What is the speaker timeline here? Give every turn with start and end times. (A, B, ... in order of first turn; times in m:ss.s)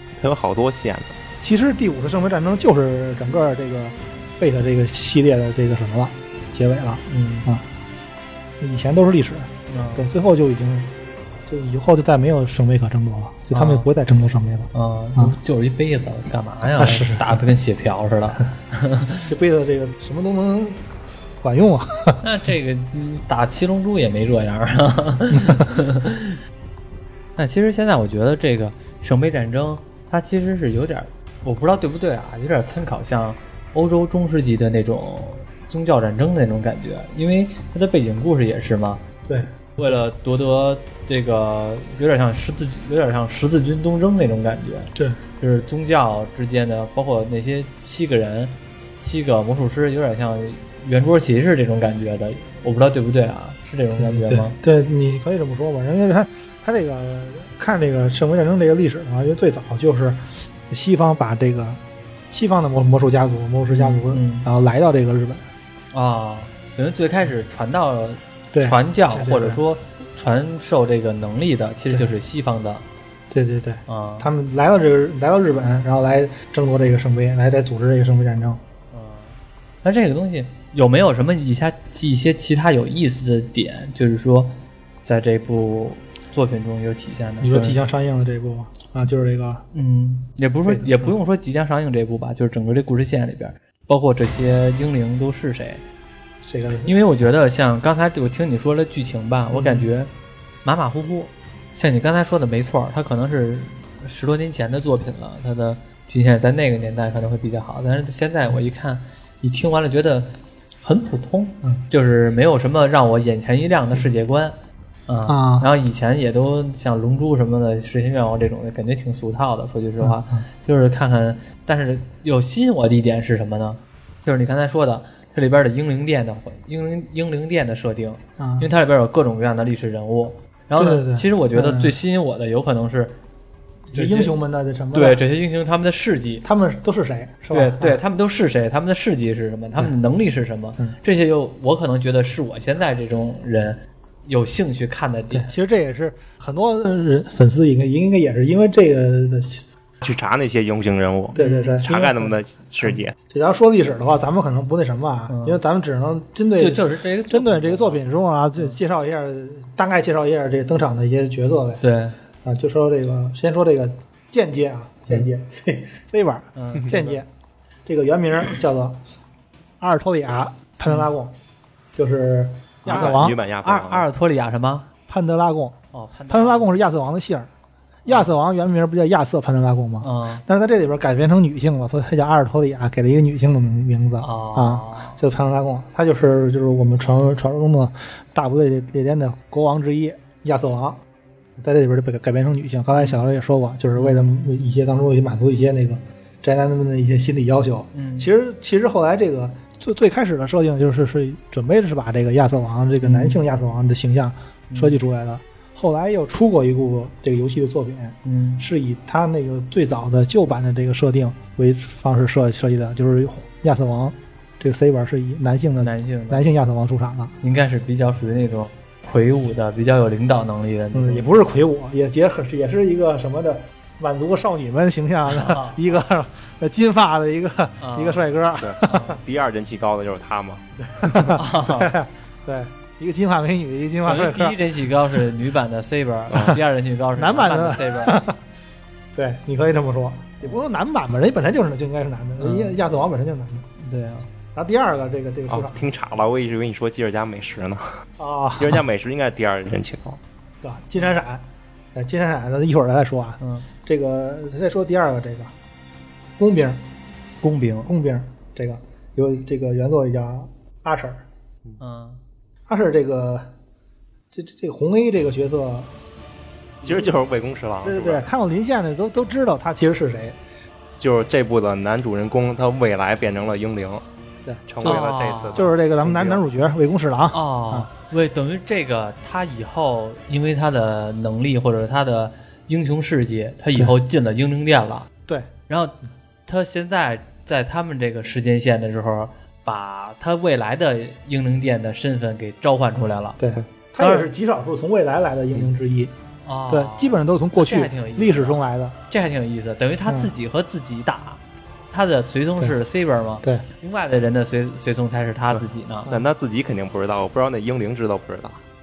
0:00.2-0:01.1 A
0:01.4-0:07.7 B
0:07.1-0:07.5 C
0:08.6-0:10.9 B
0:09.7-0:10.1 C
0:11.5-0:15.3 B
0:13.5-0:13.9 C
0:14.7-0:19.3 C
0:16.8-0:17.4 B
0:19.3-0:22.2 B
0:22.2-0:26.4 C
0:27.4-0:39.0 C
0:39.3-0:39.5 B
0:39.8-0:54.6 C
0:54.0-1:05.5 B
1:03.8-1:04.5 C
1:05.9-1:12.8 C
1:08.5-1:09.6 B
1:13.3-1:18.6 B
1:13.9-1:14.3 C
1:18.9-1:27.8 C
1:27.4-1:29.7 B
1:29.7-1:35.8 C
1:30.6-1:31.1 B
1:36.4-1:37.0 B
1:36.8-1:40.1 C
1:39.5-1:39.9 B
1:40.6-1:54.6 C
1:55.1-2:13.2 C
1:55.3-1:55.7 B
2:00.0-2:00.4 B
2:08.4-2:08.7 B
2:10.8-2:12.0 B
2:13.9-2:14.4 C
2:13.9-2:15.2 B
2:14.9-2:16.5 C
2:16.4-2:18.0 B
2:17.5-2:25.5 C
2:25.3-2:29.7 B
2:30.0-2:33.1 A
2:31.4-2:41.8 B
2:31.4-2:31.8 C
2:35.3-2:35.6 C
2:36.6-2:38.8 C
2:41.8-2:42.2 C
2:42.4-2:47.3 B
2:46.6-2:47.2 C
2:47.9-2:49.0 B
2:49.8-2:51.4 B
2:51.9-2:53.4 B
2:52.8-2:54.9 C
2:52.9-2:54.1 A
2:55.1-2:55.8 B
2:55.9-2:56.8 C
2:56.3-2:57.5 B
2:58.0-3:11.0 B
3:00.0-3:00.4 C
3:04.2-3:05.2 C
3:11.6-3:37.4 B
3:14.0-3:14.3 C
3:17.9-3:18.3 C
3:23.0-3:23.4 C
3:24.7-3:25.0 C
3:28.2-3:28.7 C
3:35.8-3:36.5 C
3:37.4-3:41.4 C
3:40.9-3:49.2 B
3:45.3-3:46.0 C
3:47.8-3:48.3 C
3:48.6-3:51.3 A
3:48.8-3:49.2 C
3:50.9-3:54.6 B
3:51.3-3:51.9 C
3:54.0-3:58.2 C
3:57.2-3:58.4 B
3:59.1-4:03.7 B
4:02.4-4:02.8 C
4:03.8-4:04.3 C
4:04.5-4:05.9 B
4:05.5-4:08.0 A
4:08.2-4:08.8 B
4:08.6-4:10.2 A
4:10.6-4:15.5 B
4:13.4-4:13.7 C
4:16.4-4:16.8 B
4:17.4-4:17.9 C
4:17.8-4:21.2 B
4:21.8-4:22.2 C
4:22.7-4:23.5 B
4:24.3-4:25.9 B
4:26.8-4:27.1 B
4:26.8-4:28.3 A
4:27.8-4:30.4 B
4:31.0-4:34.0 A
4:34.4-4:35.0 B
4:34.7-4:36.4 A
4:34.8-4:35.7 C
4:35.5-4:37.9 B
4:37.3-4:45.1 C
4:45.7-4:53.4 C
4:53.4-4:56.1 B
4:54.0-4:54.3 C
4:56.4-5:06.3 C
4:56.7-4:59.0 B
5:00.1-5:00.3 B
5:06.1-5:08.6 A